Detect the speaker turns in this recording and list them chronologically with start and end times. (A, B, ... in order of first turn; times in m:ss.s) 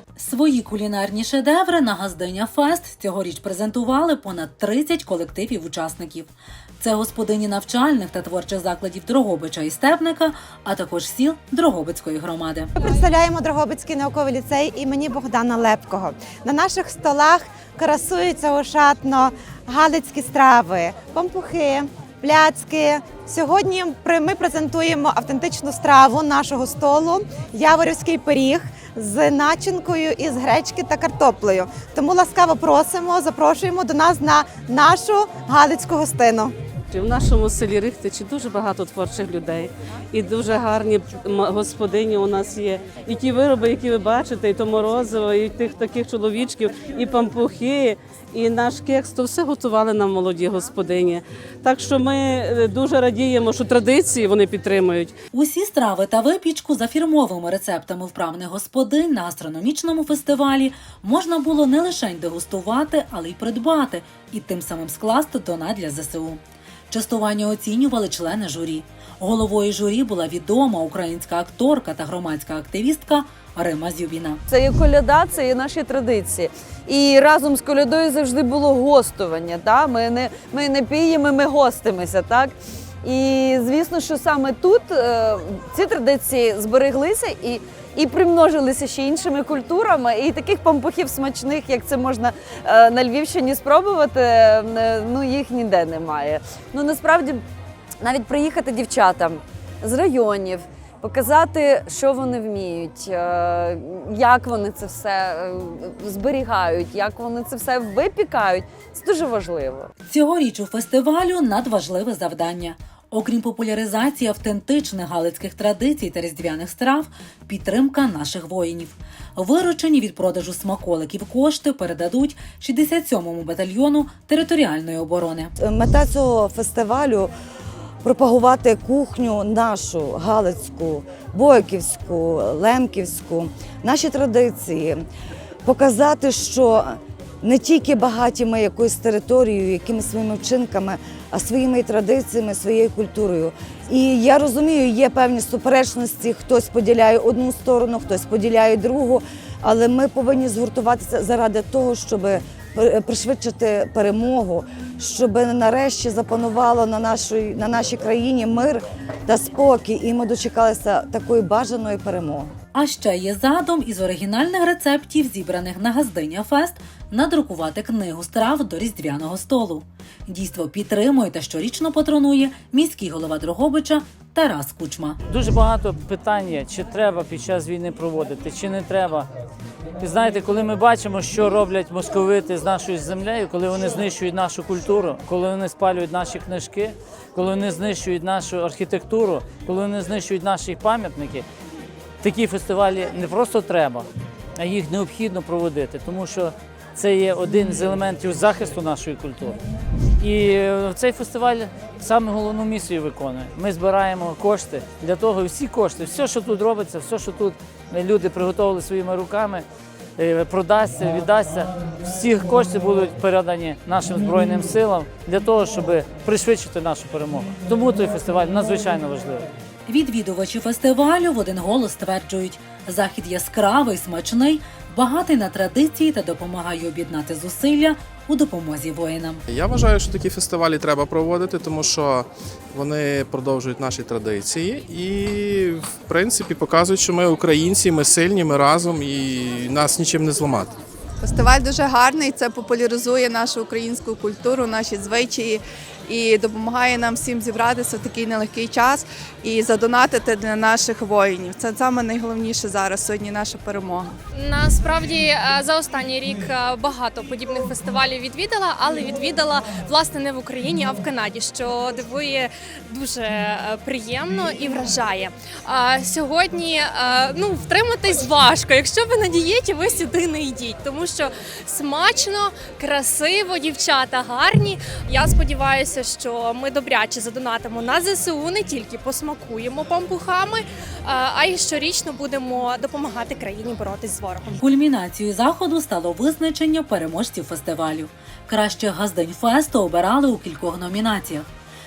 0:00.2-0:12.7 A
0:12.8-0:36.6 B
0:36.9-0:55.1 C
0:55.3-1:06.4 A
1:06.9-1:14.4 A
1:14.5-1:37.4 D
1:38.0-1:49.9 D
1:50.0-2:05.5 A
2:05.6-2:07.3 E
2:08.0-2:15.0 E
2:15.6-2:42.5 E
2:42.7-2:55.2 A
2:55.3-2:59.3 F
3:00.0-3:11.5 F
3:12.2-3:19.6 F
3:20.2-3:29.6 F
3:30.2-3:39.5 F
3:39.9-3:49.4 A
3:49.5-4:00.7 G
4:01.2-4:14.2 H
4:14.3-4:44.6 I
4:44.6-4:51.5 A